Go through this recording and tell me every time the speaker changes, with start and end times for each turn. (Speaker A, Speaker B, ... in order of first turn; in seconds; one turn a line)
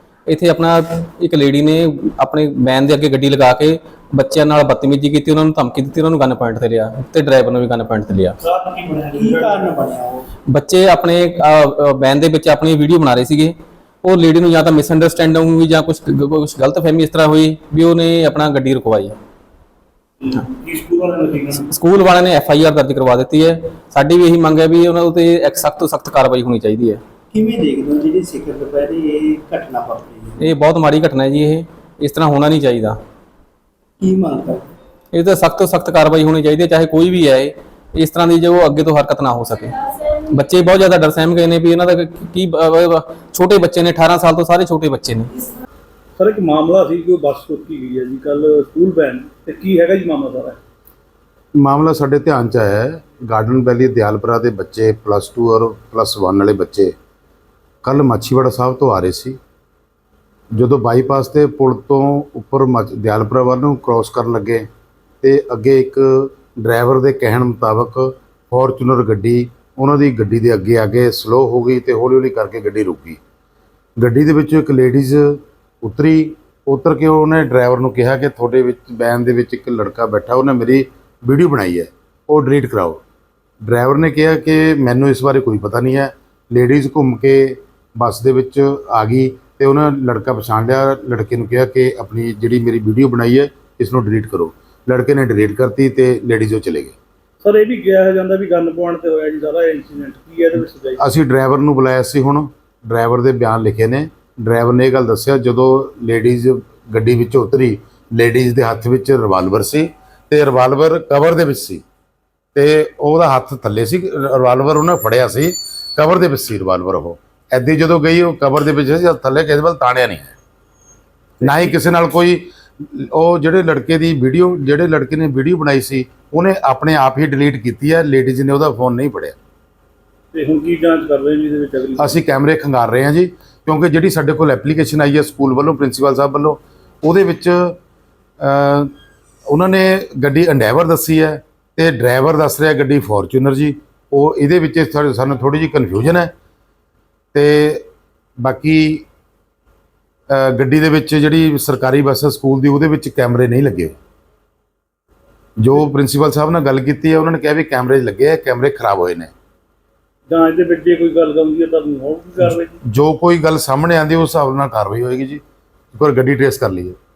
Speaker A: 0.3-8.3
Speaker B: 8.4-9.8
Speaker C: 9.1-10.2
Speaker A: 10.5-19.1
Speaker B: 20.2-21.7
Speaker A: 21.7-27.0
Speaker C: 27.3-30.4
Speaker A: 30.4-33.0
Speaker C: 34.0-34.7
Speaker A: 35.1-45.3
Speaker B: 46.2-50.6
Speaker D: 51.5-56.9
Speaker D: 57.8-59.4
Speaker D: 60.5-64.7
Speaker D: 65.2-73.2
Speaker D: 74.0-83.0
Speaker D: 83.6-97.0
Speaker B: 97.4-101.0
Speaker D: 101.0-111.8
Speaker D: 112.5-120.4
Speaker D: 121.4-129.4
Speaker B: 121.4-121.8
Speaker B: 130.3-132.3
Speaker D: 132.0-137.8
Speaker D: 138.4-138.9
Speaker D: 139.5-146.3
Speaker D: 147.3-149.1
Speaker D: 150.3-154.0
Speaker D: 155.6-159.3
Speaker B: 160.3-162.8
Speaker D: 162.4-165.4
Speaker D: 165.9-167.0